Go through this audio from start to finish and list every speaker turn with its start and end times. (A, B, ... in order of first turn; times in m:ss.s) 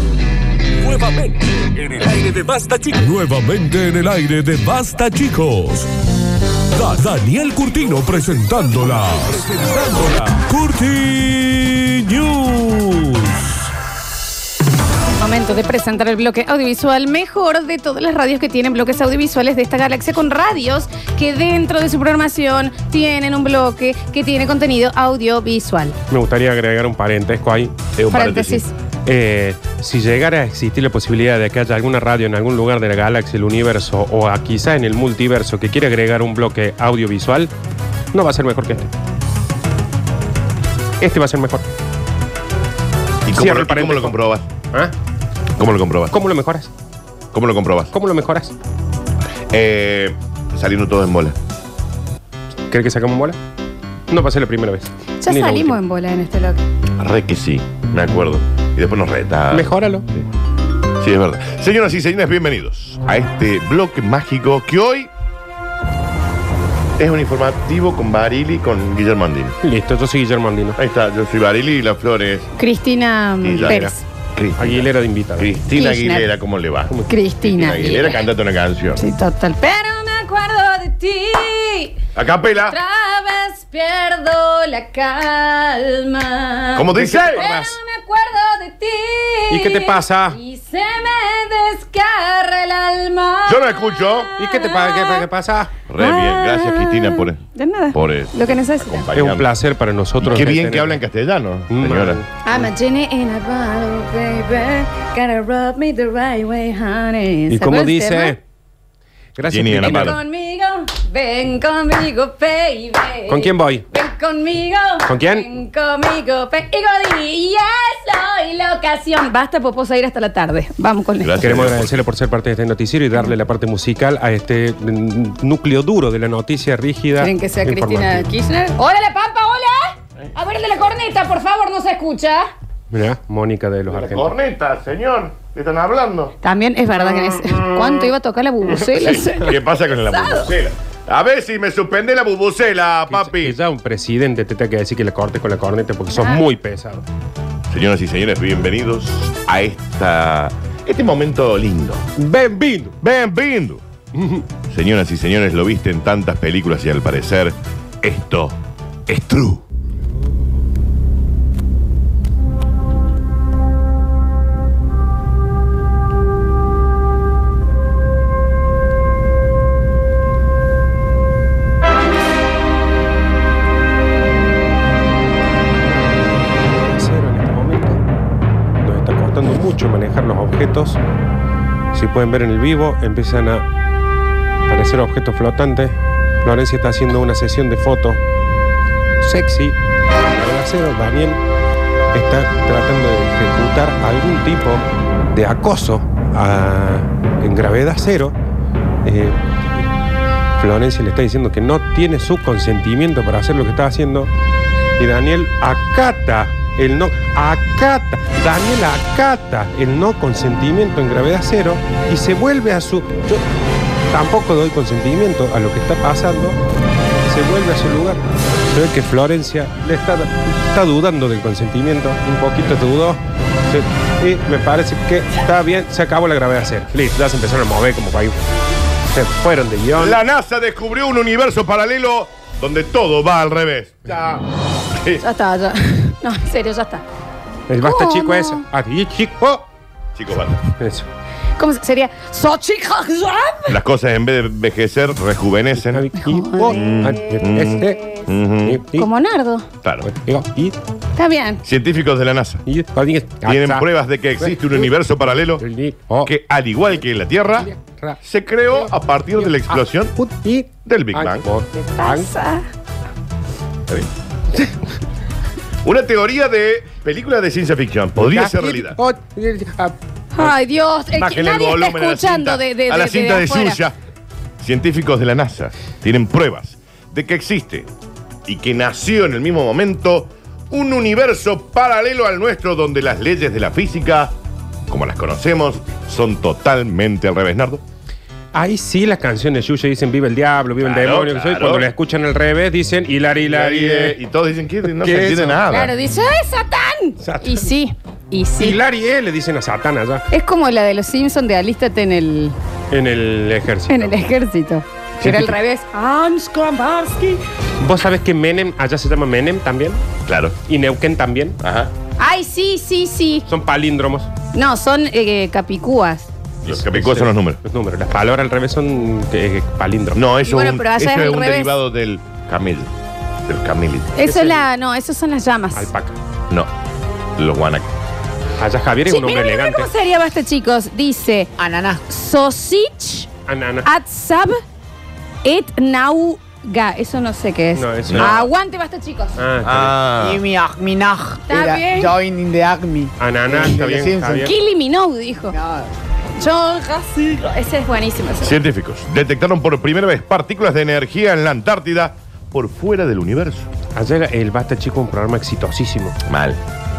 0:00.8-0:05.9 A
0:06.7-0:13.6 A
0:15.2-0:26.0 B
0:26.1-0:27.7 C
0:28.0-0:28.7 D
0:28.1-0:28.7 B
0:29.1-0:37.5 C
0:38.1-0:38.9 C
0:41.0-0:41.6 C
0:43.3-0:44.5 D
0:43.3-0:44.2 C
0:45.6-0:46.2 D
0:46.1-0:46.7 C
0:47.3-0:47.9 D
0:47.9-0:48.5 C
0:49.5-0:51.4 D
0:52.7-0:53.4 C
0:54.1-0:55.8 C
0:55.2-0:56.6 B
0:57.0-1:00.2 D
0:59.5-1:00.1 C
1:01.0-1:05.1 D
1:07.0-1:09.6 D
1:09.6-1:10.8 C
1:10.8-1:12.5 D
1:12.6-1:14.0 B
1:13.4-1:19.0 D
1:13.6-1:13.9 C
1:14.6-1:15.5 C
1:15.7-1:16.3 B
1:16.9-1:17.9 C
1:17.1-1:18.3 B
1:19.0-1:22.0 B
1:22.2-1:22.8 D
1:22.6-1:35.3 B
1:26.8-1:27.5 D
1:26.9-1:27.8 C
1:29.5-1:30.4 C
1:33.5-1:34.3 D
1:34.4-1:35.7 C
1:35.9-1:37.4 D
1:36.0-1:39.1 B
1:37.9-1:39.5 D
1:39.2-1:41.0 C
1:40.2-1:42.2 D
1:41.7-1:42.3 C
1:42.4-1:48.4 B
1:47.5-1:48.4 C
1:49.4-1:50.2 C
1:49.4-1:50.2 D
1:49.8-2:01.4 B
1:53.3-1:53.9 C
1:55.1-1:55.5 C
2:01.2-2:02.0 D
2:01.4-2:08.3 C
2:07.2-2:12.5 B
2:12.9-2:14.3 C
2:13.9-2:16.4 D
2:16.4-2:20.5 B
2:17.4-2:18.1 D
2:18.7-2:23.6 D
2:23.1-2:27.1 C
2:26.2-2:26.4 B
2:27.7-2:32.0 D
2:32.2-2:33.0 C
2:33.0-2:33.8 D
2:34.1-2:34.4 C
2:34.7-2:39.6 D
2:56.9-2:58.0 C
2:58.8-3:01.0 C
3:01.9-3:03.7 C
3:04.7-3:08.2 C
3:09.2-3:09.8 C
3:10.3-3:11.4 C
3:12.1-3:18.4 C
3:19.0-3:19.4 C
3:20.6-3:24.3 C
3:25.0-3:33.4 C
3:34.1-3:36.6 C
3:37.3-3:48.4 C
3:49.1-3:50.2 C
3:50.0-3:55.2 D
3:55.2-3:57.0 B
3:57.7-3:59.7 C
3:57.8-3:58.6 B
4:00.2-4:00.6 D
4:00.8-4:01.1 C
4:01.6-4:03.8 B
4:03.7-4:06.0 D
4:05.8-4:08.0 C
4:06.2-4:06.9 B
4:06.7-4:08.8 D
4:08.6-4:09.1 C
4:08.9-4:09.7 B
4:09.8-4:10.1 D
4:10.0-4:10.8 C
4:11.2-4:11.6 B
4:11.6-4:12.6 D
4:12.7-4:13.9 C
4:13.4-4:15.6 D
4:14.4-4:14.8 C
4:15.6-4:16.3 C
4:16.2-4:17.7 D
4:17.6-4:18.2 C
4:18.2-4:20.2 D
4:19.4-4:22.3 C
4:20.9-4:21.5 D
4:21.7-4:22.6 B
4:25.8-4:29.0 D
4:28.2-4:30.5 C
4:30.3-4:33.8 B
4:31.1-4:34.0 D
4:34.6-4:37.9 D
4:38.5-4:44.4 D
4:44.9-4:47.8 D
4:48.5-4:54.2 C
4:50.8-4:51.9 D
4:53.4-4:55.9 D
4:55.0-4:55.6 C
4:55.7-4:58.8 B
4:57.2-4:57.6 C
4:58.6-5:00.2 C
5:00.3-5:02.6 B
5:02.9-5:04.2 C
5:03.9-5:07.4 B
5:05.2-5:05.6 D
5:07.8-5:10.0 C
5:10.3-5:10.6 D
5:10.7-5:11.6 C
5:11.6-5:11.9 D
5:12.2-5:13.4 B
5:13.5-5:14.3 C
5:14.5-5:16.3 B
5:16.6-5:17.6 D
5:16.7-5:20.2 C
5:20.1-5:22.9 D
5:20.4-5:21.8 B
5:23.5-5:24.2 D
5:24.2-5:25.9 B
5:24.2-5:24.6 C
5:25.8-5:26.2 C
5:27.4-5:27.9 D
5:28.6-5:29.9 C
5:29.1-5:31.5 B
5:31.6-5:32.0 E
5:32.1-5:33.3 B
5:33.5-5:33.9 C
5:33.8-5:34.6 B
5:35.4-5:39.4 B
5:37.8-5:38.5 C
5:38.1-5:38.4 D
5:39.4-5:40.0 C
5:39.6-5:40.4 D
5:40.2-5:44.5 E
5:41.5-5:42.2 B
5:43.2-5:44.5 C
5:44.4-5:45.6 B
5:45.5-5:45.9 E
5:46.4-5:48.6 B
5:48.4-5:53.7 D
5:54.0-5:56.2 C
5:56.2-5:56.6 D